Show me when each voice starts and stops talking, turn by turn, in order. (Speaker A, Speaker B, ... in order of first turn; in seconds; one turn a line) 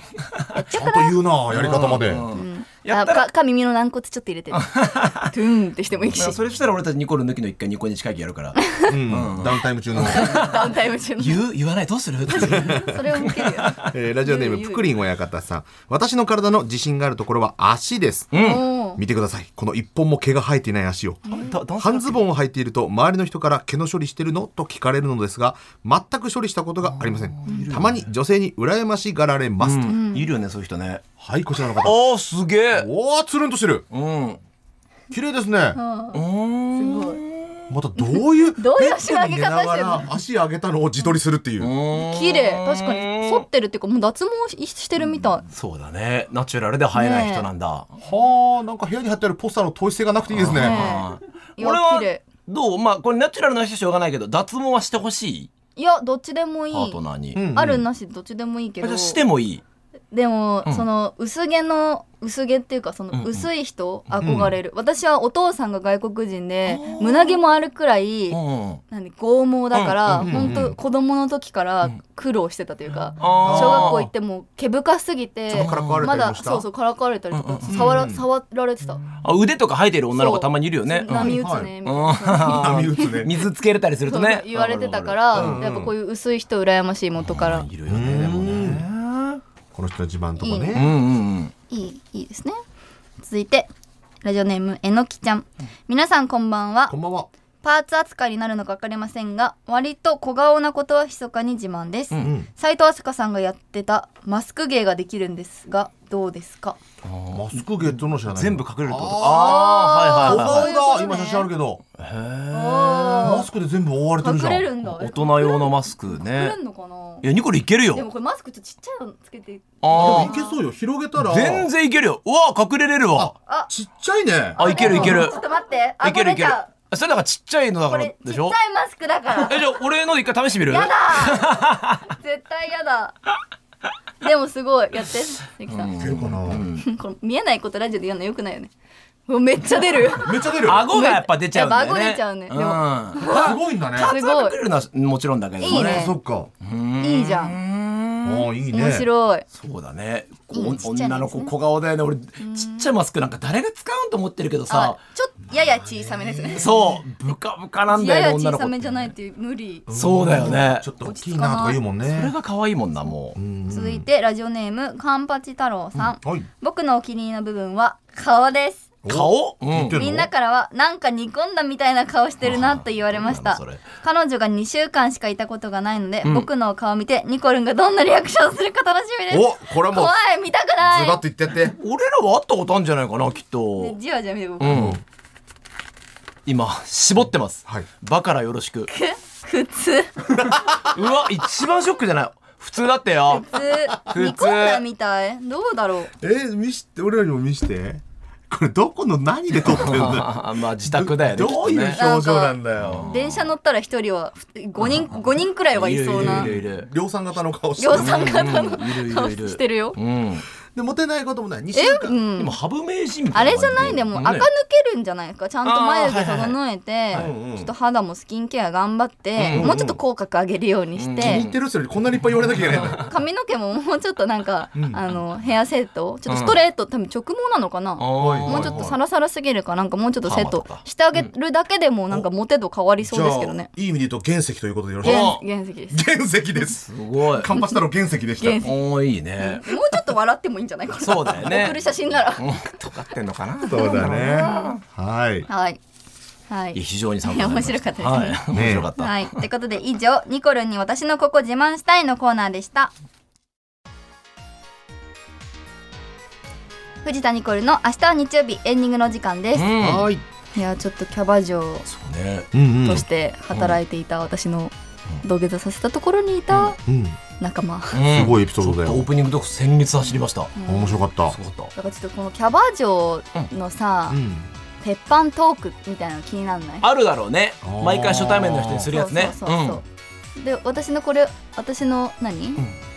Speaker A: 0.5-1.2
Speaker B: 0.7-2.3
Speaker C: 1.5-3.2
Speaker A: 2.3-6.4
Speaker C: 4.5-5.3
Speaker C: 6.1-13.9
Speaker A: 8.6-8.9
Speaker B: 8.9-10.4
Speaker A: 10.0-11.4
Speaker A: 12.3-14.9
Speaker B: 12.5-13.0
Speaker B: 13.8-29.9
Speaker C: 18.3-18.6
Speaker A: 18.4-19.0
Speaker A: 21.3-21.5
Speaker C: 21.3-22.2
Speaker C: 26.9-28.0
Speaker C: 29.6-31.0
Speaker A: 29.9-30.3
Speaker B: 31.2-32.0
Speaker C: 31.8-32.9
Speaker B: 32.7-33.9
Speaker C: 33.9-34.4
Speaker B: 35.1-35.8
Speaker A: 35.8-36.2
Speaker C: 36.1-37.7
Speaker A: 36.8-37.2
Speaker B: 37.7-41.7
Speaker A: 38.0-40.1
Speaker C: 41.6-43.5
Speaker A: 42.0-45.5
Speaker C: 45.5-47.9
Speaker A: 47.0-47.5
Speaker B: 48.0-50.9
Speaker C: 50.3-55.5
Speaker A: 50.6-52.2
Speaker A: 55.8-57.0
Speaker C: 56.7-57.4
Speaker B: 57.3-57.9
Speaker A: 57.5-59.2
Speaker C: 58.8-59.6
Speaker A: 60.1-68.4
Speaker C: 63.1-63.5
Speaker B: 64.2-64.5
Speaker C: 66.7-67.4
Speaker C: 68.3-68.8
Speaker A: 68.9-79.0
Speaker C: 69.7-70.6
Speaker B: 70.2-70.8
Speaker C: 73.2-74.1
Speaker B: 73.2-74.1
Speaker B: 75.5-76.7
Speaker C: 75.5-76.1
Speaker C: 77.3-78.1
Speaker B: 77.7-78.2
Speaker C: 79.1-85.6
Speaker A: 80.2-83.1
Speaker B: 81.1-81.7
Speaker B: 82.4-83.3
Speaker A: 84.1-87.7
Speaker B: 85.3-85.9
Speaker C: 87.2-89.4
Speaker B: 87.9-88.9
Speaker B: 89.7-90.9
Speaker A: 90.4-90.8
Speaker C: 90.7-91.5
Speaker A: 91.7-92.6
Speaker A: 93.2-93.7
Speaker A: 94.2-96.9
Speaker B: 96.9-97.3
Speaker A: 97.6-106.8
Speaker B: 102.2-102.5
Speaker C: 107.0-110.7
Speaker B: 107.3-111.8
Speaker A: 109.2-111.5
Speaker C: 112.0-113.4
Speaker A: 112.5-113.5
Speaker B: 113.2-114.7
Speaker A: 114.2-117.3
Speaker C: 114.8-116.6
Speaker C: 117.2-118.0
Speaker A: 117.9-120.6
Speaker C: 119.8-120.3
Speaker B: 119.9-121.7
Speaker C: 121.2-123.3
Speaker B: 123.1-125.2
Speaker A: 124.6-126.7
Speaker C: 124.6-125.4
Speaker C: 126.0-128.6
Speaker A: 127.9-129.7
Speaker C: 129.4-132.1
Speaker A: 130.7-133.2
Speaker A: 134.2-135.9
Speaker C: 135.7-136.9
Speaker B: 136.0-136.7
Speaker A: 136.8-138.7
Speaker A: 139.3-144.6
Speaker B: 140.2-140.9
Speaker C: 140.6-146.1
Speaker B: 143.3-144.2
Speaker A: 145.6-146.2
Speaker B: 145.6-146.5
Speaker C: 146.6-148.5
Speaker A: 147.0-147.6
Speaker B: 148.2-149.1
Speaker A: 148.7-149.5
Speaker C: 149.5-155.0
Speaker A: 150.5-151.5
Speaker A: 152.4-152.9
Speaker A: 154.7-156.7
Speaker B: 155.6-157.0
Speaker C: 156.6-159.1
Speaker A: 157.9-159.9
Speaker B: 159.9-162.3
Speaker C: 159.9-160.9
Speaker A: 161.0-161.8
Speaker C: 162.0-163.4
Speaker B: 163.4-164.1
Speaker A: 163.7-168.9
Speaker B: 166.2-166.5
Speaker B: 169.0-170.3
Speaker C: 169.1-170.0
Speaker A: 169.9-181.2
Speaker C: 172.4-173.8
Speaker B: 179.3-180.2
Speaker B: 180.8-181.8
Speaker C: 181.7-184.0
Speaker A: 183.8-184.9
Speaker C: 184.6-185.0
Speaker B: 184.7-185.0
Speaker C: 186.5-188.9
Speaker A: 188.9-190.1
Speaker B: 190.4-190.8
Speaker C: 190.8-193.5
Speaker A: 193.3-196.1
Speaker C: 194.1-194.8
Speaker B: 196.2-203.1
Speaker C: 199.6-202.0
Speaker A: 201.9-206.5
Speaker C: 202.8-203.5
Speaker C: 205.7-206.9
Speaker B: 206.1-208.7
Speaker A: 207.8-210.0
Speaker C: 207.9-210.4
Speaker B: 210.7-212.2
Speaker A: 211.8-212.6
Speaker C: 212.4-214.5
Speaker A: 213.3-221.5
Speaker C: 215.6-216.6
Speaker B: 217.1-217.7
Speaker C: 219.4-219.8
Speaker B: 219.5-220.0
Speaker C: 221.0-221.6
Speaker B: 221.2-223.0
Speaker C: 222.6-223.1
Speaker A: 222.7-233.7
Speaker B: 224.8-225.0
Speaker C: 226.3-226.6
Speaker C: 228.0-228.8
Speaker B: 228.2-229.0
Speaker C: 230.2-231.3
Speaker B: 233.0-235.4
Speaker C: 235.0-235.4
Speaker A: 235.0-236.0
Speaker B: 235.9-238.7
Speaker C: 236.7-237.5
Speaker A: 238.4-238.7
Speaker C: 238.6-239.6
Speaker A: 239.4-242.8
Speaker C: 241.0-241.8
Speaker C: 242.4-244.8
Speaker A: 243.6-244.8
Speaker B: 243.7-245.5
Speaker A: 245.5-245.8
Speaker A: 246.5-248.4
Speaker C: 246.7-249.4
Speaker B: 248.5-248.9
Speaker A: 249.0-252.9
Speaker A: 257.0-259.7
Speaker C: 259.6-260.1
Speaker B: 259.8-260.2
Speaker A: 260.5-261.9
Speaker C: 261.9-262.5
Speaker B: 262.5-263.0
Speaker A: 262.8-266.8
Speaker C: 263.5-263.8
Speaker B: 266.8-267.2
Speaker A: 267.4-268.0
Speaker C: 267.9-270.5
Speaker B: 268.1-269.1
Speaker A: 270.6-271.1
Speaker B: 270.7-271.4
Speaker C: 271.3-271.7
Speaker A: 271.7-274.2
Speaker B: 274.1-274.5
Speaker A: 274.8-276.9
Speaker C: 276.8-279.8
Speaker B: 277.6-278.9
Speaker A: 278.9-279.8
Speaker A: 280.4-282.6